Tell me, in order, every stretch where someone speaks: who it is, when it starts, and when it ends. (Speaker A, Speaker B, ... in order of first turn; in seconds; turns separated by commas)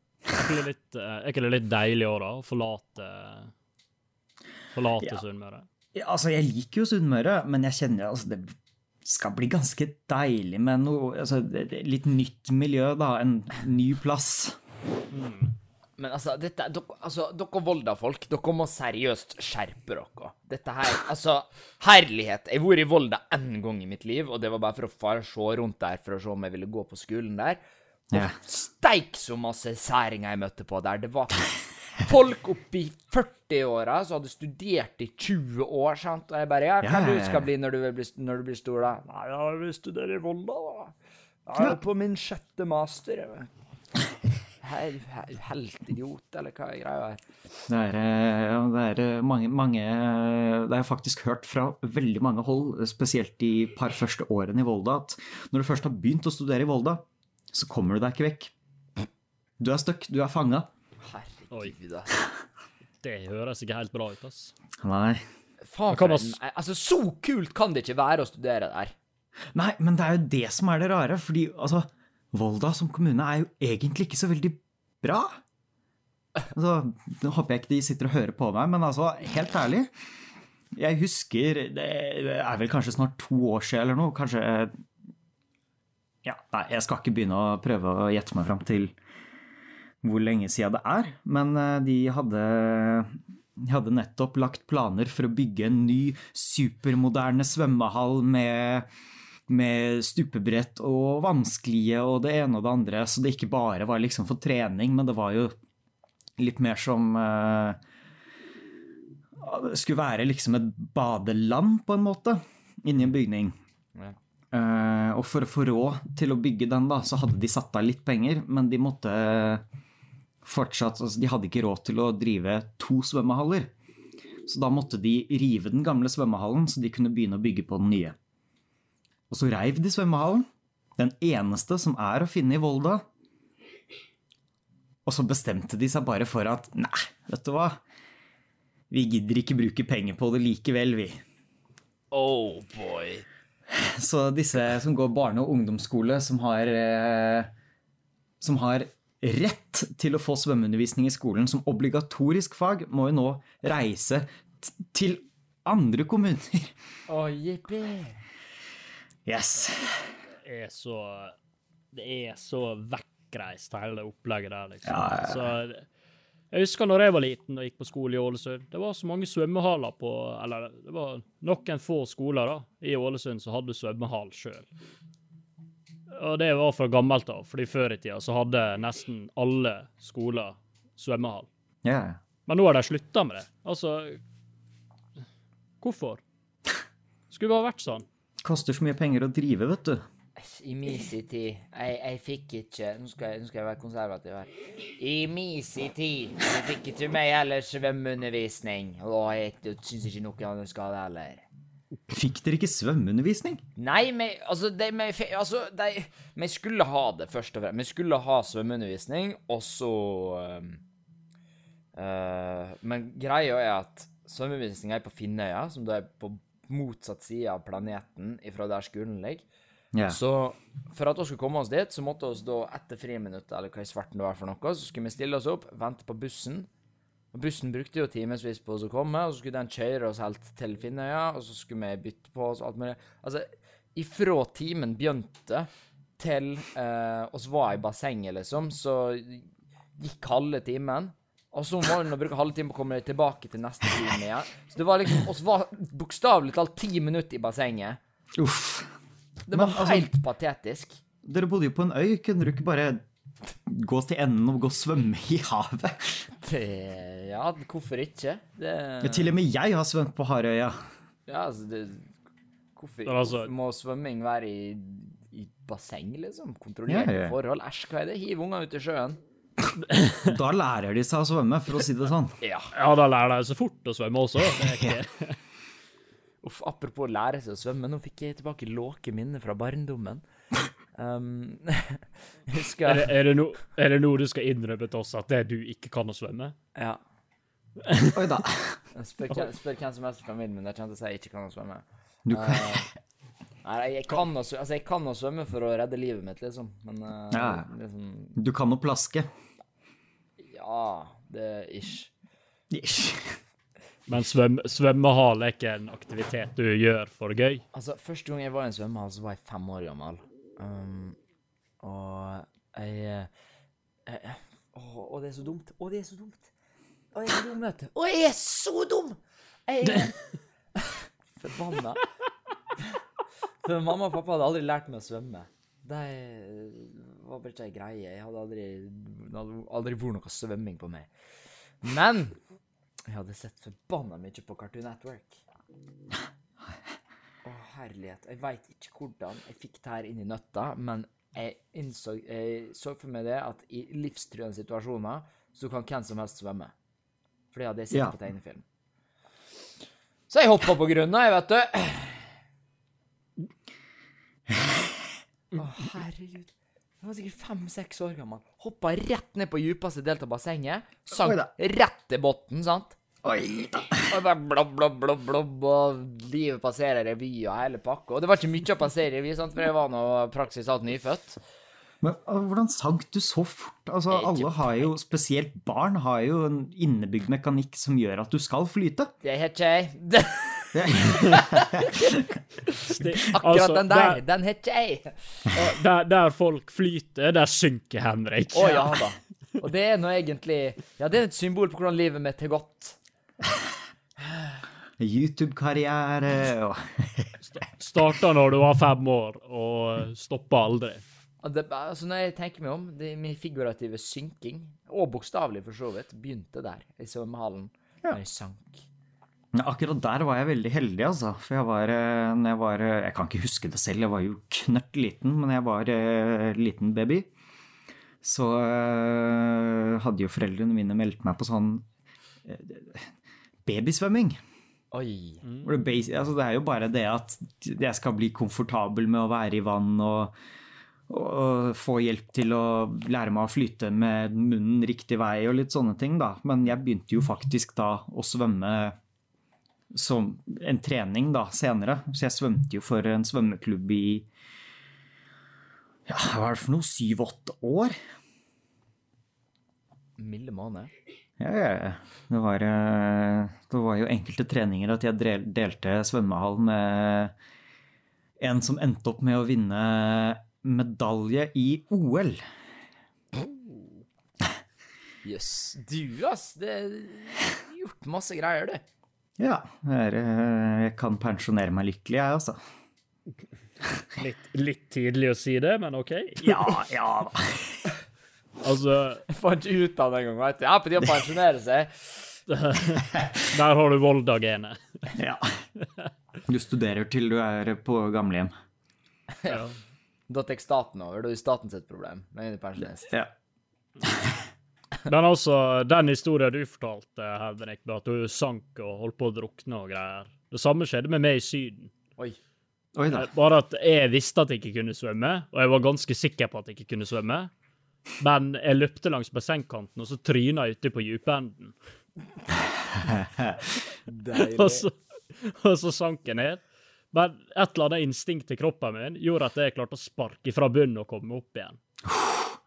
Speaker A: 0.3-3.5, Speaker A: 4.7-5.6, Speaker B: 5.9-14.6, Speaker A: 15.1-15.5, Speaker C: 16.0-27.6, Speaker B: 28.1-28.4, Speaker C: 28.1-40.9, Speaker B: 36.8-37.5, Speaker C: 41.5-43.5, Speaker C: 44.6-47.2, Speaker B: 47.7-58.5, Speaker B: 59.6-60.7, Speaker C: 61.0-62.2, Speaker A: 63.0-64.5, Speaker B: 64.8-65.2, Speaker C: 65.6-68.9, Speaker A: 65.9-66.4, Speaker B: 69.5-75.4, Speaker B: 76.5-79.9, Speaker B: 80.7-84.8, Speaker B: 86.2-88.9, Speaker B: 90.0-98.9, Speaker B: 99.5-105.5, Speaker B: 106.4-107.8, Speaker B: 109.4-113.5, Speaker B: 114.5-119.6, Speaker B: 120.4-123.7, Speaker B: 124.4-128.2, Speaker B: 129.3-133.0, Speaker B: 135.1-137.8, Speaker B: 138.9-141.2, Speaker C: 142.1-143.2, Speaker B: 143.7-147.5, Speaker B: 148.4-156.7, Speaker C: 157.1-158.2, Speaker B: 159.2-160.1, Speaker A: 160.4-161.3, Speaker A: 161.9-165.8, Speaker B: 164.8-165.5, Speaker A: 166.5-174.7, Speaker A: 176.1-181.5, Speaker B: 181.8-182.2, Speaker A: 182.5-184.2, Speaker A: 185.8-186.2, Speaker A: 187.3-188.1, Speaker B: 188.4-190.0, Speaker C: 190.4-201.4, Speaker B: 202.1-203.6, Speaker C: 203.8-210.8, Speaker C: 211.9-219.4, Speaker B: 219.9-220.2, Speaker C: 220.1-226.7, Speaker C: 227.3-248.0, Speaker B: 248.3-248.9, Speaker C: 249.5-251.0, Speaker B: 249.5-250.1, Speaker B: 251.2-253.0, Speaker B: 253.7-256.3, Speaker C: 256.4-259.3, Speaker B: 259.0-260.8, Speaker C: 261.3-262.1, Speaker C: 262.8-269.2, Speaker A: 263.1-263.5, Speaker B: 266.9-267.3, Speaker B: 270.2-272.4, Speaker C: 272.4-272.7, Speaker A: 272.7-275.4, Speaker B: 274.5-275.0, Speaker C: 276.4-280.2, Speaker C: 280.9-283.1, Speaker A: 282.9-286.6, Speaker C: 286.7-287.0, Speaker A: 287.8-288.2, Speaker B: 288.1-288.8, Speaker C: 288.9-292.9, Speaker B: 292.2-292.9, Speaker C: 293.6-298.4, Speaker B: 297.3-297.7, Speaker B: 298.3-299.3, Speaker C: 300.4-302.1, Speaker B: 302.7-303.4, Speaker A: 304.1-307.6, Speaker C: 307.7-311.2, Speaker C: 311.8-313.3, Speaker C: 314.1-316.5, Speaker C: 317.1-322.0, Speaker C: 323.6-331.1, Speaker C: 331.8-332.4, Speaker C: 333.1-335.4, Speaker C: 337.4-346.7, Speaker C: 347.5-348.6, Speaker C: 350.3-352.3, Speaker C: 355.5-363.0, Speaker B: 361.2-361.5, Speaker B: 363.2-364.1, Speaker C: 364.0-371.4, Speaker B: 372.0-379.1, Speaker C: 374.1-374.9, Speaker C: 379.2-385.5, Speaker B: 380.7-382.4, Speaker A: 382.9-384.2, Speaker A: 385.5-389.0, Speaker C: 388.5-393.0, Speaker B: 395.0-397.4, Speaker A: 397.5-401.0, Speaker C: 401.4-408.9, Speaker B: 409.5-417.3, Speaker B: 418.2-421.8, Speaker B: 422.4-423.1, Speaker B: 423.6-424.4, Speaker C: 424.9-425.4, Speaker A: 425.4-425.7, Speaker B: 425.6-430.3, Speaker B: 431.1-438.9, Speaker B: 439.9-444.3, Speaker B: 446.1-447.9, Speaker C: 450.2-450.9, Speaker B: 451.4-457.3, Speaker B: 458.4-462.4, Speaker C: 465.2-468.8, Speaker B: 469.4-472.6, Speaker A: 474.1-476.8, Speaker B: 476.4-477.9, Speaker A: 478.6-479.2, Speaker C: 479.3-482.4, Speaker A: 482.5-485.1, Speaker B: 485.1-485.6, Speaker B: 486.4-488.5, Speaker A: 489.4-489.8, Speaker C: 490.3-493.1, Speaker A: 495.0-501.9, Speaker B: 502.9-503.3, Speaker A: 503.1-507.5, Speaker A: 508.2-511.7, Speaker B: 513.0-513.7, Speaker C: 514.1-514.9, Speaker A: 514.4-521.8, Speaker B: 522.1-522.5